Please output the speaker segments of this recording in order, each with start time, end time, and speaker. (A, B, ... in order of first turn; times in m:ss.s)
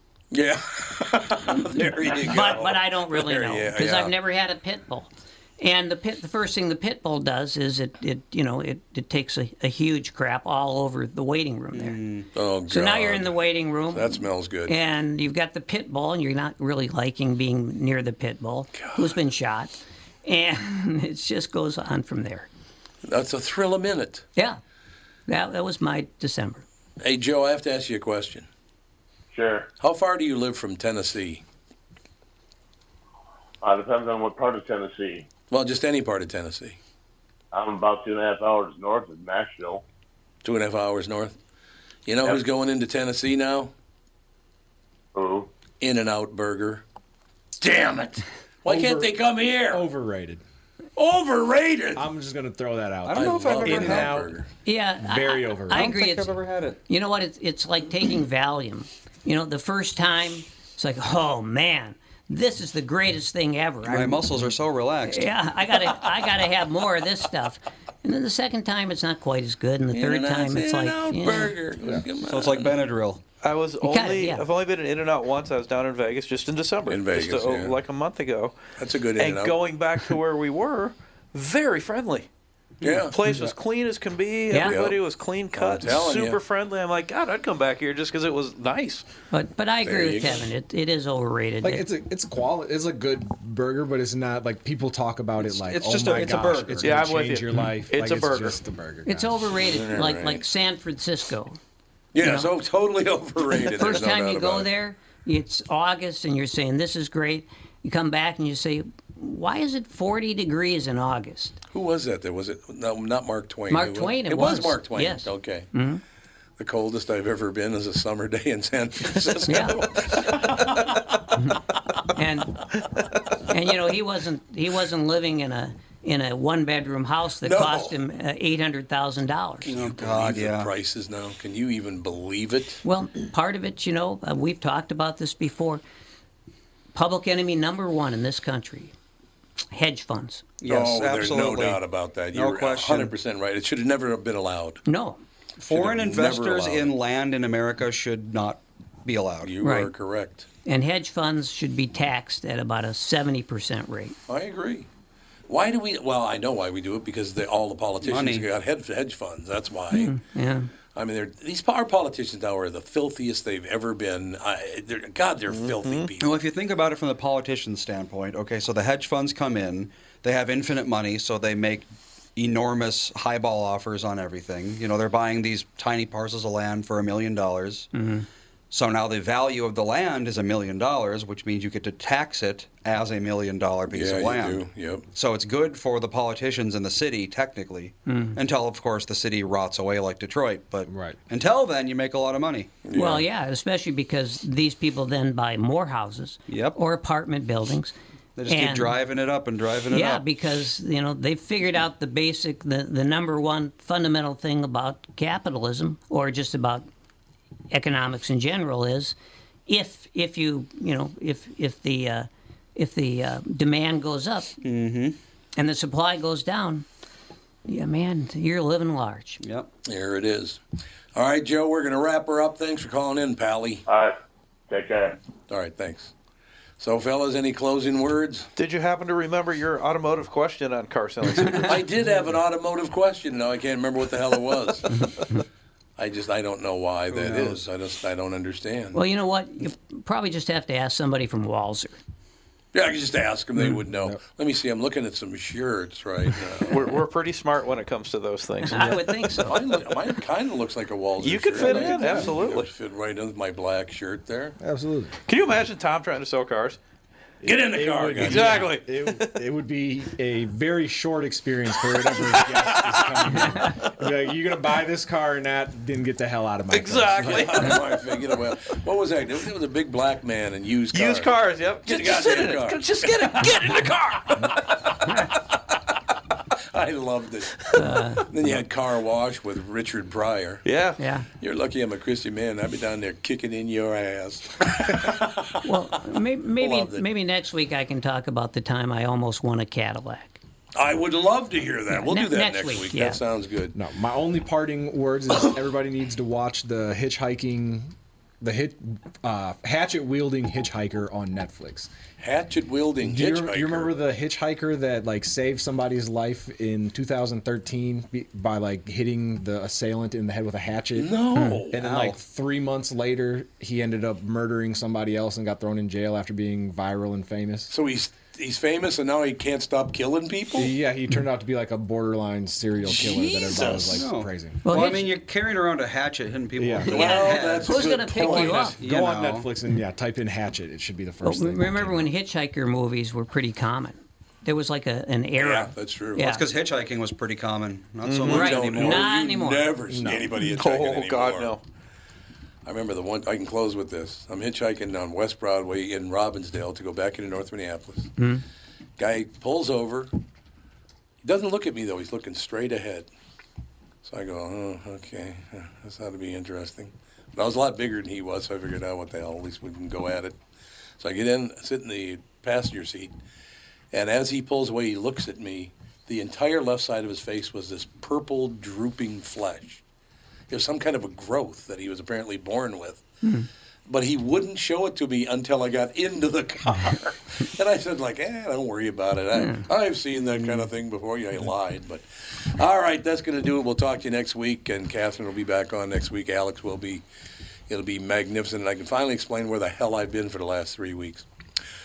0:00.3-0:04.1 A
0:01.5-0:12.0 B
0:11.7-0:12.3 C
0:12.3-0:13.4 A
0:12.7-0:22.5 B
0:13.9-0:14.7 A
0:18.7-0:19.2 A
0:23.0-0:24.2 A
0:25.3-0:26.6 B
0:27.0-0:28.4 A
0:29.3-0:29.7 D
0:29.8-0:31.4 A
0:33.6-0:35.3 D
0:35.5-0:36.8 A
0:37.5-0:39.8 D
0:40.4-0:41.4 A
0:42.0-0:43.7 A
0:45.1-0:45.5 D
0:45.8-0:46.8 A
0:47.6-0:49.9 A
0:48.6-0:49.2 E
0:49.7-0:50.4 E
0:51.0-0:52.0 A
0:52.0-0:54.4 E
0:53.0-0:54.1 C
0:53.1-0:54.5 A
0:54.6-0:56.3 B
0:55.0-0:55.9 E
0:55.7-0:56.8 C
0:56.9-1:04.3 B
1:03.8-1:05.3 C
1:05.0-1:11.5 B
1:09.9-1:12.7 A
1:12.2-1:13.2 C
1:13.4-1:18.6 F
1:13.8-1:14.4 B
1:16.9-1:17.8 A
1:18.8-1:19.6 A
1:19.2-1:22.3 F
1:22.8-1:23.0 C
1:22.8-1:23.2 A
1:23.0-1:29.0 F
1:23.2-1:23.5 E
1:24.5-1:24.8 B
1:24.6-1:25.0 A
1:25.5-1:26.4 A
1:29.3-1:31.8 B
1:29.8-1:30.4 A
1:31.6-1:39.5 E
1:35.4-1:37.0 C
1:36.8-1:38.6 F
1:39.0-1:41.6 B
1:39.6-1:40.4 A
1:42.1-1:44.7 A
1:42.2-1:42.5 B
1:43.7-1:51.6 B
1:51.7-1:55.7 A
1:53.7-1:56.0 B
1:56.6-2:01.0 A
1:59.5-1:59.9 B
2:02.1-2:02.6 B
2:03.5-2:09.7 B
2:07.4-2:07.9 A
2:09.6-2:12.8 A
2:09.7-2:10.7 C
2:12.8-2:15.8 B
2:16.9-2:18.9 B
2:19.7-2:20.4 B
2:20.6-2:21.8 C
2:20.7-2:24.8 A
2:22.3-2:23.1 C
2:24.8-2:25.2 B
2:25.6-2:29.5 C
2:25.7-2:26.9 A
2:29.4-2:30.5 A
2:29.6-2:29.9 B
2:30.6-2:34.2 B
2:34.3-2:34.9 A
2:35.5-2:40.1 A
2:38.0-2:38.5 C
2:39.9-2:40.7 B
2:40.9-2:46.3 A
2:45.5-2:46.1 F
2:46.2-2:57.9 C
2:57.9-2:58.2 B
2:58.7-3:12.7 C
3:03.9-3:05.0 A
3:08.1-3:08.4 B
3:10.9-3:11.2 E
3:12.8-3:13.2 A
3:12.9-3:17.9 B
3:16.5-3:16.8 C
3:18.4-3:20.2 C
3:18.5-3:19.0 B
3:19.9-3:26.8 B
3:27.7-3:29.1 B
3:29.7-3:34.6 B
3:34.6-3:35.2 C
3:35.6-3:36.8 B
3:37.7-3:39.4 B
3:39.4-3:39.7 C
3:39.8-3:40.6 A
3:41.1-3:43.8 A
3:43.8-3:44.1 D
3:44.7-3:45.2 D
3:45.5-3:46.1 A
3:46.8-3:48.5 A
3:48.6-3:51.8 F
3:51.6-3:55.0 A
3:56.0-3:59.0 A
3:57.1-3:57.6 C
3:58.9-4:02.0 B
4:02.7-4:07.0 A
4:03.6-4:04.2 E
4:06.7-4:08.9 F
4:08.6-4:09.6 B
4:09.4-4:14.6 A
4:11.2-4:12.7 F
4:11.6-4:12.3 E
4:14.6-4:15.2 E
4:15.3-4:16.8 F
4:17.4-4:27.7 E
4:17.4-4:18.7 A
4:18.2-4:19.4 F
4:22.2-4:23.4 F
4:26.7-4:27.8 F
4:27.2-4:33.5 A
4:30.9-4:34.7 F
4:35.1-4:35.3 A
4:36.7-4:40.6 A
4:37.8-4:38.2 B
4:40.6-4:41.0 F
4:41.0-4:41.3 B
4:41.4-4:45.7 A
4:45.6-4:50.4 B
4:46.6-4:47.0 A
4:50.7-4:53.8 A
4:51.9-4:53.2 B
4:53.7-5:01.9 E
5:02.2-5:04.0 A
5:03.0-5:11.1 E
5:10.9-5:11.8 A
5:11.4-5:11.6 B
5:11.7-5:17.7 E
5:11.8-5:12.2 C
5:17.7-5:20.7 A
5:20.5-5:24.6 E
5:22.8-5:24.1 A
5:24.0-5:29.5 C
5:24.6-5:25.1 B
5:26.6-5:27.2 E
5:26.9-5:28.8 A
5:26.9-5:28.8 B
5:28.8-5:32.1 E
5:31.2-5:36.4 B
5:35.4-5:36.2 A
5:36.2-5:39.1 C
5:38.0-5:38.8 F
5:38.2-5:39.7 B
5:38.3-5:41.6 A
5:39.9-5:40.3 E
5:40.4-5:41.6 F
5:42.6-5:48.1 A
5:48.2-5:48.4 B
5:49.0-5:50.1 A
5:51.2-5:53.1 A
5:54.0-6:00.4 A
6:01.0-6:03.1 A
6:03.9-6:09.8 A
6:10.5-6:13.0 A
6:13.2-6:13.5 B
6:13.9-6:27.0 A
6:19.3-6:19.6 B
6:27.7-6:31.2 A